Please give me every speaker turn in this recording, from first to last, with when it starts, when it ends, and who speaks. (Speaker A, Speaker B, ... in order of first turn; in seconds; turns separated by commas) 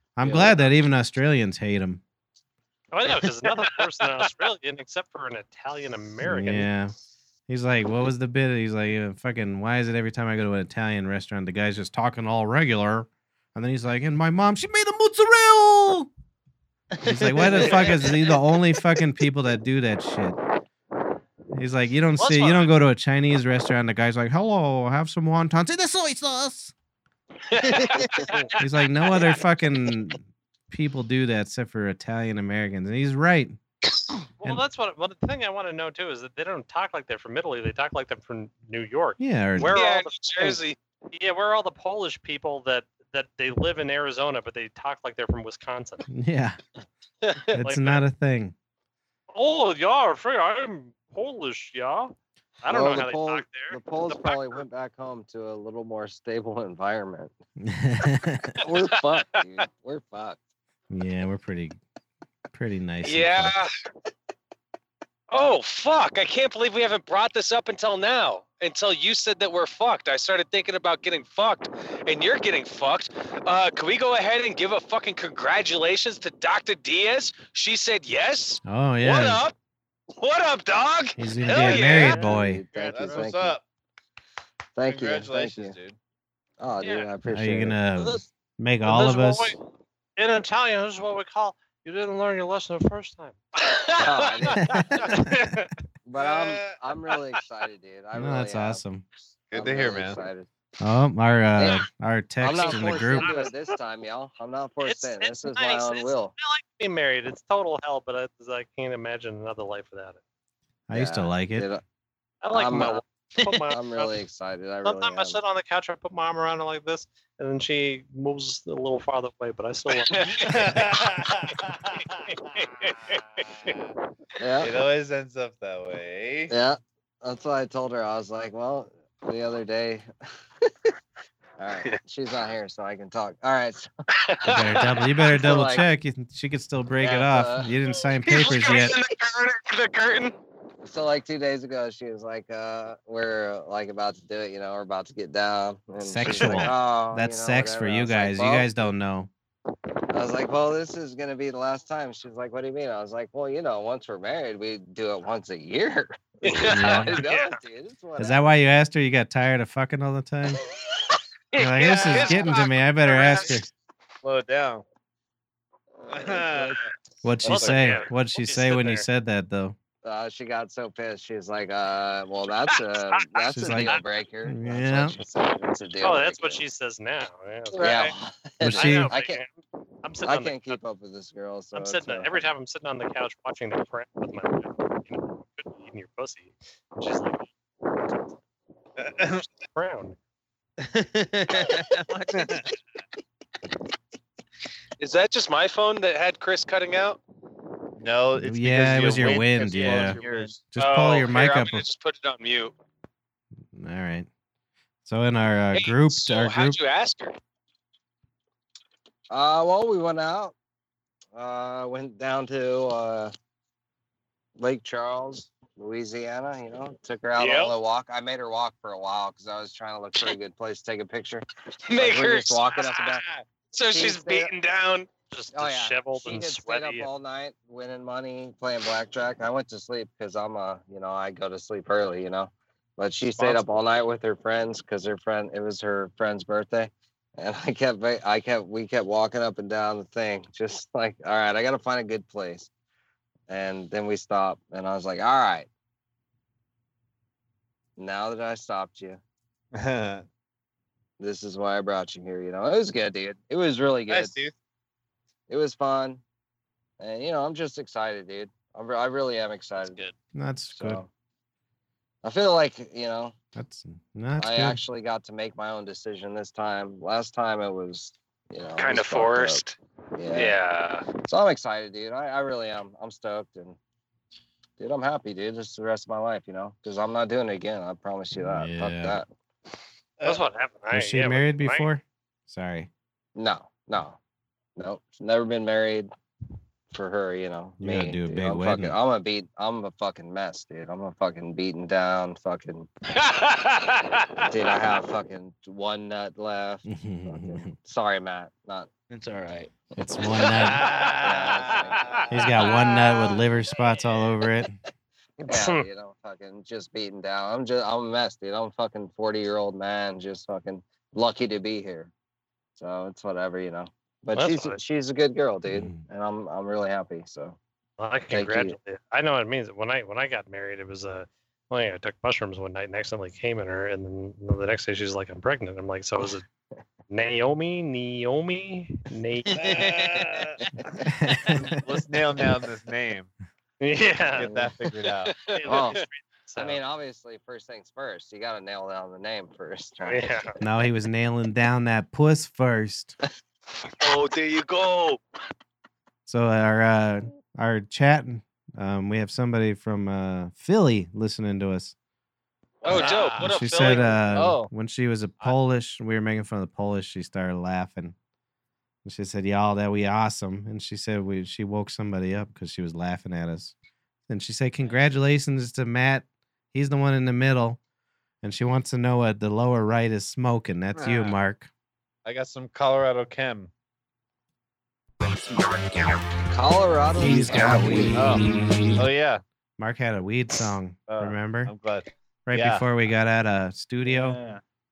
Speaker A: 0.1-2.0, Speaker B: 2.9-6.7, Speaker C: 3.6-4.3, Speaker A: 6.2-6.9, Speaker A: 7.5-16.1, Speaker D: 16.9-18.4, Speaker A: 17.0-20.4, Speaker A: 21.5-26.7, Speaker B: 22.2-22.7, Speaker C: 27.5-28.6, Speaker D: 27.6-28.3, Speaker B: 28.1-28.5, Speaker A: 28.6-33.6, Speaker B: 34.4-40.6, Speaker A: 39.2-39.8, Speaker C: 39.6-40.8, Speaker B: 41.1-46.0, Speaker A: 46.1-46.6, Speaker A: 47.5-48.5, Speaker B: 47.5-48.0, Speaker B: 49.3-54.6, Speaker E: 52.7-57.3, Speaker A: 57.6-58.6, Speaker E: 58.6-60.4, Speaker A: 60.9-61.8, Speaker A: 62.5-63.5, Speaker C: 63.0-63.7, Speaker C: 65.3-79.5, Speaker A: 78.6-79.5, Speaker C: 80.2-82.2, Speaker A: 81.2-82.6, Speaker F: 81.4-82.2, Speaker E: 82.1-83.5, Speaker F: 82.7-83.6, Speaker E: 84.8-85.7, Speaker F: 84.8-86.0, Speaker E: 86.6-87.8, Speaker A: 87.2-89.5, Speaker B: 88.8-89.6, Speaker B: 90.2-93.4, Speaker C: 93.6-94.8, Speaker E: 94.0-95.0, Speaker A: 94.6-95.5, Speaker B: 95.1-95.7, Speaker E: 96.0-98.8, Speaker F: 96.2-96.8, Speaker A: 98.1-99.0, Speaker F: 99.5-100.2, Speaker E: 99.5-100.5, Speaker A: 100.8-103.5, Speaker E: 101.5-101.8, Speaker E: 102.4-106.3, Speaker B: 102.5-103.7, Speaker B: 104.8-110.2, Speaker A: 110.9-111.7, Speaker E: 110.9-111.8, Speaker B: 112.4-114.2, Speaker E: 112.5-113.0, Speaker E: 113.7-115.4, Speaker B: 114.8-120.8, Speaker C: 120.1-120.6, Speaker F: 120.3-122.3, Speaker C: 122.5-123.7, Speaker E: 124.4-124.8, Speaker F: 124.6-126.5, Speaker E: 126.5-130.1, Speaker E: 130.6-130.9, Speaker E: 131.6-133.9, Speaker C: 134.2-135.0, Speaker A: 134.4-139.0, Speaker E: 135.3-135.8, Speaker E: 137.0-137.7, Speaker C: 138.2-140.3, Speaker E: 140.8-148.9, Speaker A: 146.0-149.3, Speaker E: 150.1-158.4, Speaker C: 156.4-157.2, Speaker A: 156.7-157.2, Speaker B: 157.2-157.5, Speaker A: 158.2-160.6, Speaker C: 161.5-163.6, Speaker A: 161.6-163.7, Speaker F: 164.2-164.8, Speaker F: 166.1-166.8, Speaker E: 166.1-166.8, Speaker A: 167.2-169.8, Speaker B: 167.4-169.1, Speaker F: 167.5-168.0, Speaker E: 170.0-176.6, Speaker A: 173.4-175.2, Speaker B: 173.7-174.0, Speaker B: 176.0-178.0, Speaker C: 177.7-178.1, Speaker E: 177.8-179.4, Speaker A: 178.6-179.1, Speaker B: 178.7-180.8, Speaker E: 180.2-182.5, Speaker B: 181.7-188.2, Speaker F: 189.0-189.4, Speaker B: 189.7-190.2, Speaker D: 190.8-192.7, Speaker F: 192.3-192.7, Speaker C: 195.0-197.2, Speaker F: 198.0-200.5, Speaker A: 198.3-200.2, Speaker D: 199.1-200.6, Speaker A: 200.7-201.8, Speaker C: 200.8-202.7, Speaker A: 203.7-204.3, Speaker A: 205.0-206.8, Speaker C: 205.7-207.3, Speaker E: 209.3-210.5, Speaker E: 211.3-213.3, Speaker E: 214.6-223.2, Speaker C: 217.3-217.7, Speaker C: 221.9-225.1, Speaker E: 223.9-224.5, Speaker B: 225.3-227.1, Speaker E: 225.5-242.7, Speaker E: 243.5-245.7, Speaker E: 248.0-249.2, Speaker F: 249.7-250.2, Speaker E: 251.2-254.3, Speaker F: 254.1-254.5, Speaker E: 255.5-256.2, Speaker E: 257.0-260.0, Speaker A: 260.3-261.0, Speaker E: 260.7-261.1, Speaker E: 262.2-263.3, Speaker A: 263.5-264.8, Speaker E: 264.4-269.6, Speaker C: 268.8-269.8, Speaker E: 270.1-270.6, Speaker C: 270.3-271.1, Speaker E: 271.2-273.8, Speaker E: 274.8-279.3, Speaker A: 278.3-279.2, Speaker B: 280.2-281.9, Speaker A: 280.9-282.9, Speaker E: 283.3-284.2, Speaker E: 284.8-286.1, Speaker E: 286.9-292.9, Speaker A: 287.8-289.0, Speaker C: 293.1-294.5, Speaker E: 294.4-298.9, Speaker A: 296.9-297.7, Speaker D: 299.1-299.7, Speaker A: 300.0-300.9, Speaker F: 300.5-302.2, Speaker E: 301.2-302.5, Speaker A: 302.3-304.8, Speaker C: 302.6-303.4, Speaker E: 305.4-312.1, Speaker B: 305.5-305.9, Speaker E: 312.8-317.6, Speaker B: 314.3-314.8, Speaker A: 315.7-316.0, Speaker B: 318.0-326.4, Speaker E: 318.3-318.8, Speaker B: 327.1-330.4, Speaker D: 329.5-330.2, Speaker F: 329.6-330.6, Speaker A: 331.1-331.8, Speaker F: 331.4-333.3, Speaker B: 333.8-334.5, Speaker F: 334.3-335.3, Speaker E: 334.4-334.7, Speaker C: 335.3-336.0, Speaker B: 335.5-336.8, Speaker E: 335.7-336.0, Speaker E: 336.6-340.3, Speaker B: 340.1-340.5, Speaker A: 340.6-343.1, Speaker C: 344.0-345.2, Speaker A: 346.2-351.9, Speaker F: 352.8-354.7, Speaker C: 352.8-354.2, Speaker A: 352.9-358.1, Speaker A: 359.0-363.7, Speaker A: 364.3-367.8, Speaker A: 368.4-371.7, Speaker F: 370.9-371.4, Speaker F: 372.2-373.7, Speaker E: 376.4-378.3, Speaker A: 377.2-379.0, Speaker F: 378.1-379.4, Speaker A: 379.8-381.7, Speaker F: 381.1-382.8, Speaker A: 382.5-384.4, Speaker D: 384.0-384.6